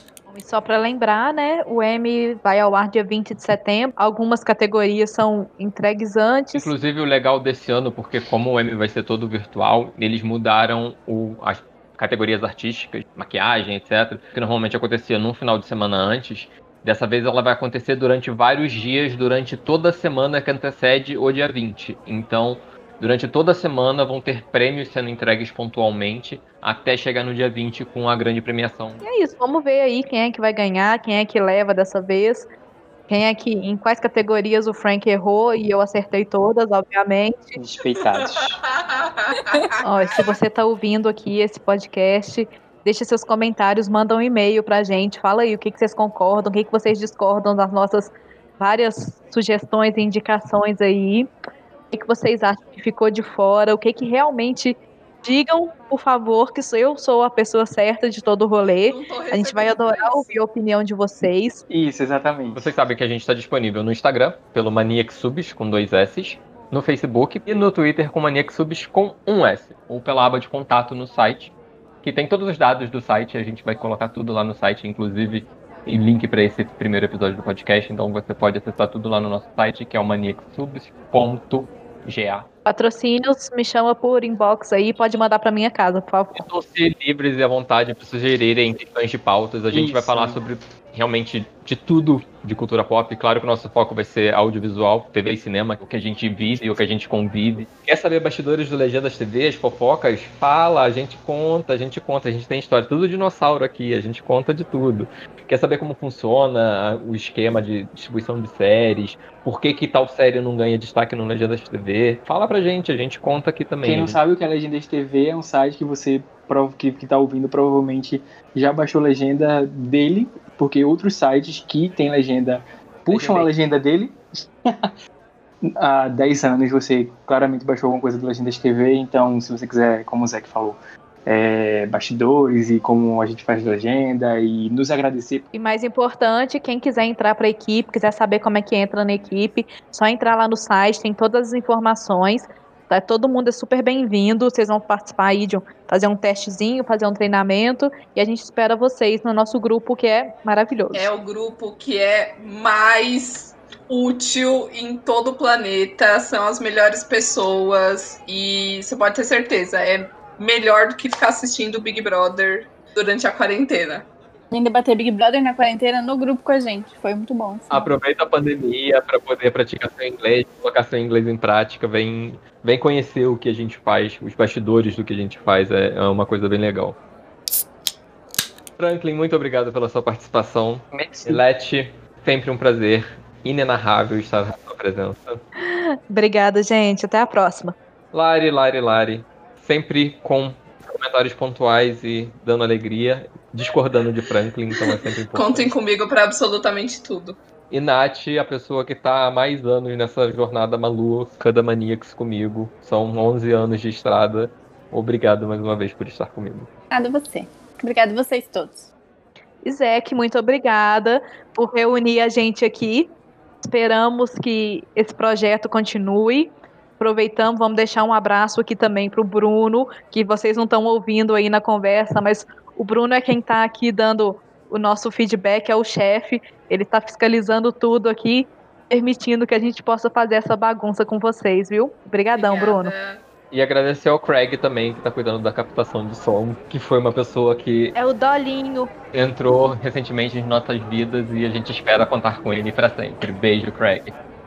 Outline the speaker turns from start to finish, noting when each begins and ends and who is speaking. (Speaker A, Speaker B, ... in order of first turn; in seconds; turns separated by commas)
Speaker A: 0.3-6.7, Speaker B: 6.5-29.0, Speaker A: 29.0-32.5, Speaker A: 33.1-37.6, Speaker C: 37.5-38.6, Speaker D: 38.1-40.4, Speaker A: 39.8-51.3, Speaker A: 51.9-61.6, Speaker D: 58.9-60.3, Speaker C: 61.7-62.7, Speaker B: 62.5-82.5, Speaker A: 82.7-86.4, Speaker B: 86.3-114.2, Speaker C: 89.7-90.4, Speaker C: 113.8-124.9, Speaker B: 123.1-123.5, Speaker C: 125.6-135.5, Speaker A: 135.5-151.1, Speaker D: 150.9-164.1, Speaker E: 164.5-167.9, Speaker B: 167.7-177.0, Speaker B: 178.8-185.4, Speaker C: 180.9-181.4, Speaker A: 185.6-187.7, Speaker B: 188.1-195.7, Speaker D: 194.8-197.4, Speaker B: 197.7-206.7, Speaker E: 206.9-208.9, Speaker A: 209.6-213.1, Speaker A: 213.6-232.9, Speaker D: 232.3-233.2, Speaker B: 233.5-237.9, Speaker A: 237.9-238.9, Speaker B: 239.1-244.1